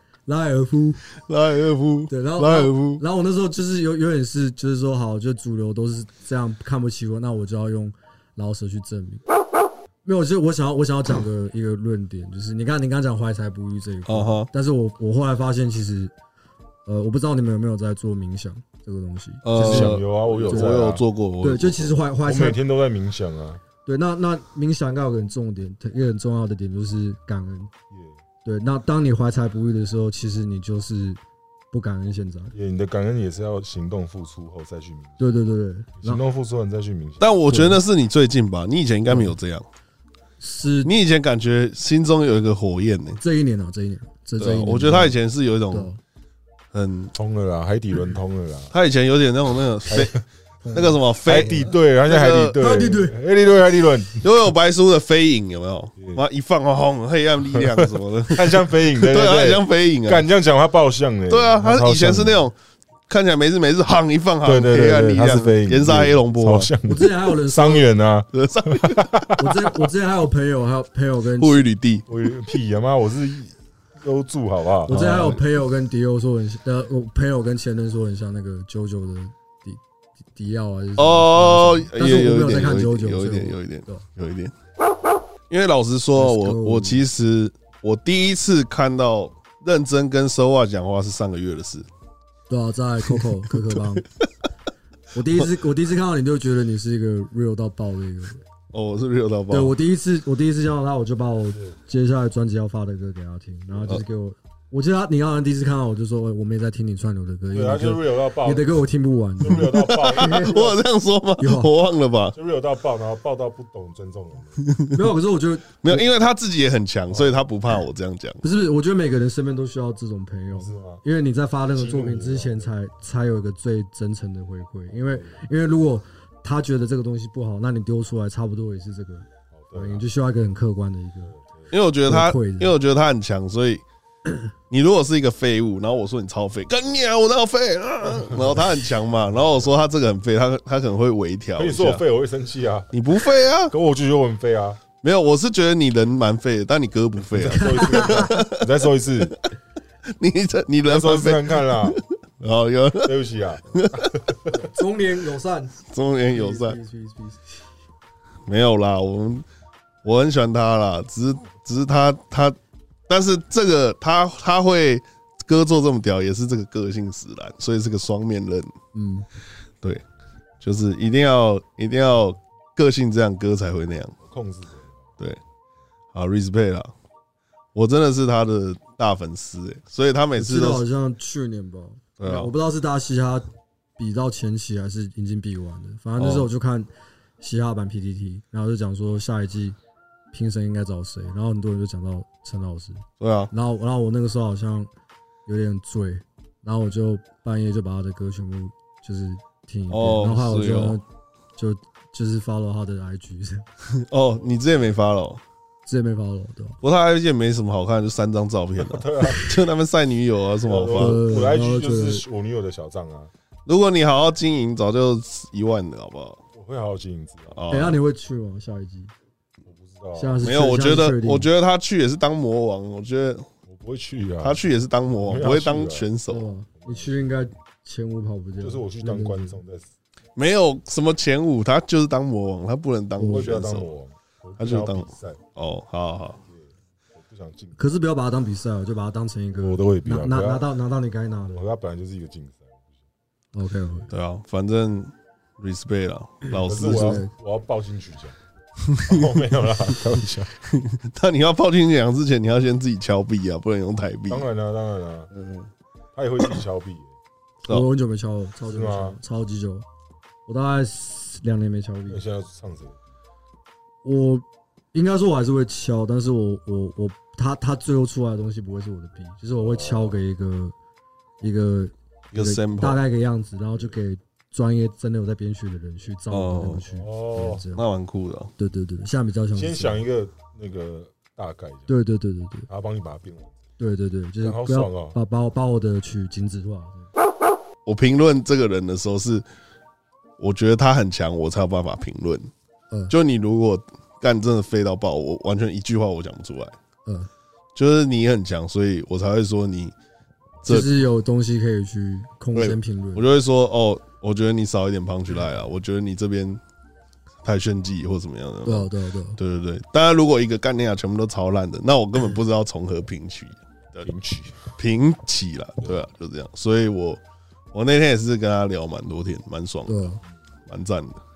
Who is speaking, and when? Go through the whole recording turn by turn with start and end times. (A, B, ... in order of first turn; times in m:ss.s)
0:00.2-0:01.0 A
0:01.2-0:03.0 B
0:02.1-0:09.2 A
0:10.0-0:16.1 A
0:14.1-0:14.5 B
0:16.9-0:20.8 A
0:19.4-0:21.9 B
0:19.6-0:21.0 C
0:21.4-0:22.6 A
0:22.2-0:23.6 C
0:23.8-0:27.7 A
0:27.9-0:28.2 C
0:28.4-0:31.2 A
0:31.7-0:32.6 A
0:32.5-0:35.3 C
0:35.2-0:36.2 A
0:36.0-0:37.4 C
0:37.2-0:39.6 B
0:37.5-0:37.8 A
0:39.1-0:39.4 A
0:40.4-0:40.9 A
0:40.8-0:43.2 B
0:43.2-0:45.2 A
0:44.4-0:45.9 B
0:45.7-0:46.0 A
0:46.7-0:47.1 B
0:47.2-0:48.7 C
0:48.7-0:50.2 B
0:50.6-0:51.0 A
0:50.7-0:52.6 B
0:51.2-0:54.3 C
0:52.6-0:53.2 A
0:54.2-1:00.2 B
0:56.0-0:56.2 C
0:57.5-1:02.4 C
1:01.3-1:02.5 B
1:03.1-1:06.7 B
1:04.4-1:09.6 C
1:06.8-1:07.8 A
1:08.3-1:09.1 B
1:09.4-1:11.6 A
1:11.4-1:12.1 B
1:12.1-1:15.0 C
1:14.9-1:15.4 B
1:14.9-1:19.8 A
1:20.3-1:24.0 A
1:21.0-1:24.5 B
1:25.5-1:31.9 B
1:26.2-1:27.0 A
1:32.5-1:34.0 A
1:33.1-1:34.2 B
1:35.1-1:38.4 A
1:38.7-1:39.7 B
1:39.5-1:50.7 A
1:47.5-1:48.7 C
1:49.4-1:50.8 C
1:49.5-1:52.4 B
1:51.4-1:51.7 A
1:52.4-1:54.7 C
1:54.9-1:56.0 A
1:55.8-1:58.4 B
1:57.1-1:57.5 C
1:58.4-2:11.3 A
2:00.5-2:01.0 C
2:01.7-2:02.7 C
2:09.5-2:10.1 C
2:11.3-2:11.8 C
2:11.7-2:13.8 B
2:12.1-2:12.7 A
2:14.7-2:22.0 B
2:18.1-2:18.7 C
2:19.3-2:19.7 C
2:21.6-2:23.0 C
2:22.9-2:23.7 B
2:23.7-2:24.8 C
2:25.0-2:28.7 B
2:27.3-2:29.4 C
2:27.5-2:28.3 A
2:30.1-2:33.2 B
2:30.8-2:32.0 C
2:33.0-2:34.6 C
2:33.7-2:34.1 B
2:34.5-2:37.7 A
2:35.9-2:36.8 B
2:38.5-2:39.4 B
2:40.0-2:42.6 B
2:43.1-2:48.7 B
2:48.9-2:49.3 A
2:50.6-2:54.2 B
2:54.2-2:55.1 C
2:56.1-2:56.9 B
2:57.8-3:00.8 B
3:00.4-3:03.5 A
3:02.2-3:02.5 B
3:04.0-3:09.8 A
3:06.2-3:06.5 B
3:10.3-3:14.9 A
3:13.2-3:13.5 B
3:15.4-3:21.0 A
3:19.9-3:21.0 B
3:21.6-3:23.7 A
3:23.9-3:25.4 B
3:25.9-3:26.8 A
3:26.8-3:31.2 B
3:28.8-3:29.6 C
3:30.6-3:33.3 C
3:30.9-3:32.2 A
3:33.7-3:36.4 B
3:36.5-3:37.6 C
3:37.5-3:38.0 B
3:37.7-3:39.1 A
3:39.6-3:40.4 C
3:40.2-3:41.5 A
3:40.4-3:43.5 B
3:43.7-3:46.1 C
3:44.4-3:46.5 B
3:46.3-3:49.6 A
3:46.8-3:47.3 C
3:48.6-3:49.9 C
3:50.4-3:53.9 B
3:53.2-3:53.5 A
3:53.2-3:55.4 C
3:54.6-3:56.4 B
3:56.4-3:58.0 C
3:57.8-4:01.6 A
3:59.6-4:00.7 C
4:01.5-4:03.0 C
4:03.5-4:04.1 A
4:04.1-4:07.2 B
4:06.6-4:08.4 C
4:06.7-4:07.3 A
4:08.9-4:09.3 B
4:09.0-4:10.5 C
4:10.6-4:14.4 B
4:14.3-4:15.3 C
4:15.3-4:15.7 B
4:16.2-4:17.1 C
4:17.7-4:19.9 A
4:18.7-4:19.2 C
4:20.5-4:22.2 A
4:22.1-4:23.0 C
4:24.0-4:30.8 A
4:29.6-4:30.2 C
4:31.4-4:37.8 A
4:32.3-4:33.0 B
4:36.3-4:36.8 B
4:36.9-4:37.6 C
4:37.7-4:38.5 B
4:38.6-4:40.0 A
4:39.5-4:41.9 C
4:41.9-4:42.7 A
4:42.7-4:43.6 C
4:43.8-4:47.1 A
4:44.4-4:45.2 C
4:47.9-4:49.4 B
4:50.4-4:52.5 B
4:53.1-4:56.8 B
4:57.8-4:59.9 B
5:00.6-5:00.9 B
5:00.6-5:03.2 A
5:02.6-5:06.6 B
5:07.4-5:14.1 B
5:08.6-5:09.4 A
5:14.0-5:14.8 C
5:14.8-5:17.2 B
5:17.7-5:20.1 B
5:19.9-5:20.2 A
5:20.7-5:21.2 B